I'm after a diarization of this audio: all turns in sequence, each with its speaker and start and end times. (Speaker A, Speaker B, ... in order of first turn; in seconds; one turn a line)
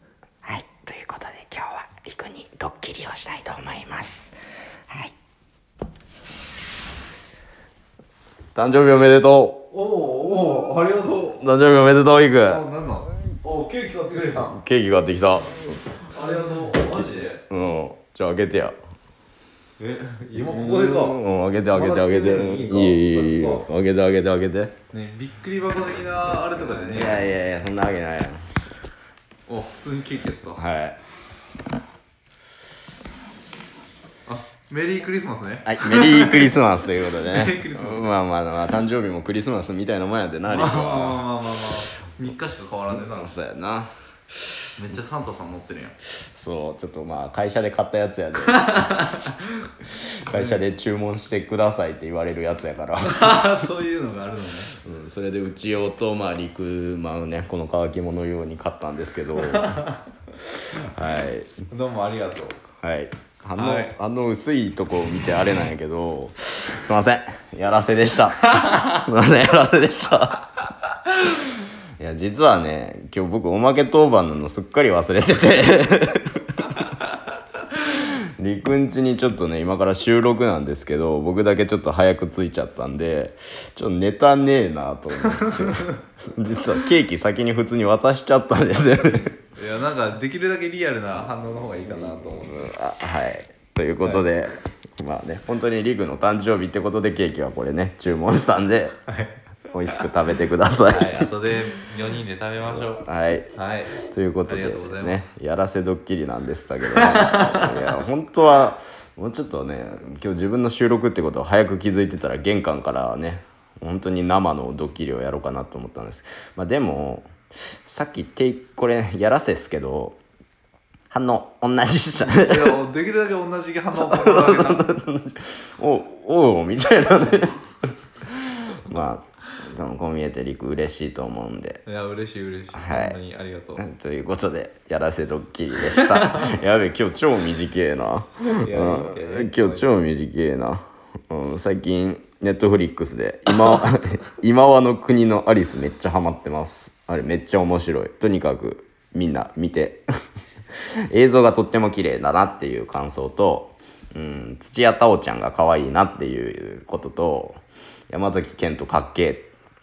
Speaker A: 0.4-4.3
Speaker A: 8.6-9.7
Speaker B: 9.7-11.4
Speaker A: 11.4-12.6
Speaker B: 12.4-14.6
Speaker A: 14.4-16.0
Speaker B: 16.0-17.4
Speaker A: 17.0-18.8
Speaker B: 19.8-23.7
Speaker A: 20.4-24.8
Speaker B: 24.9-27.4
Speaker A: 26.8-28.4
Speaker B: 29.5-30.6
Speaker A: 30.6-31.0
Speaker B: 34.3-36.5
Speaker A: 35.6-41.3
Speaker B: 37.2-38.2
Speaker B: 40.5-43.3
Speaker A: 43.0-43.9
Speaker B: 44.8-46.0
Speaker A: 46.2-49.1
Speaker B: 48.6-49.4
Speaker A: 49.9-53.5
Speaker B: 50.3-50.6
Speaker B: 53.0-54.8
Speaker A: 54.8-59.8
Speaker B: 59.5-60.0
Speaker A: 60.5-61.5
Speaker B: 61.7-62.6
Speaker A: 62.8-70.5
Speaker B: 63.6-63.9
Speaker A: 71.1-76.8
Speaker A: 77.7-89.4
Speaker B: 85.3-86.0
Speaker B: 89.6-92.7
Speaker A: 92.0-99.0
Speaker B: 99.1-99.4
Speaker A: 99.7-101.3
Speaker B: 100.9-105.3
Speaker A: 102.7-117.3
Speaker B: 106.9-107.9
Speaker A: 117.9-120.2
Speaker A: 121.1-122.8
Speaker B: 122.2-124.9
Speaker A: 124.0-131.8
Speaker B: 131.9-133.8
Speaker A: 132.7-133.2
Speaker A: 133.8-150.1
Speaker B: 135.9-136.5
Speaker B: 138.6-139.9
Speaker A: 150.8-157.6
Speaker A: 158.1-159.5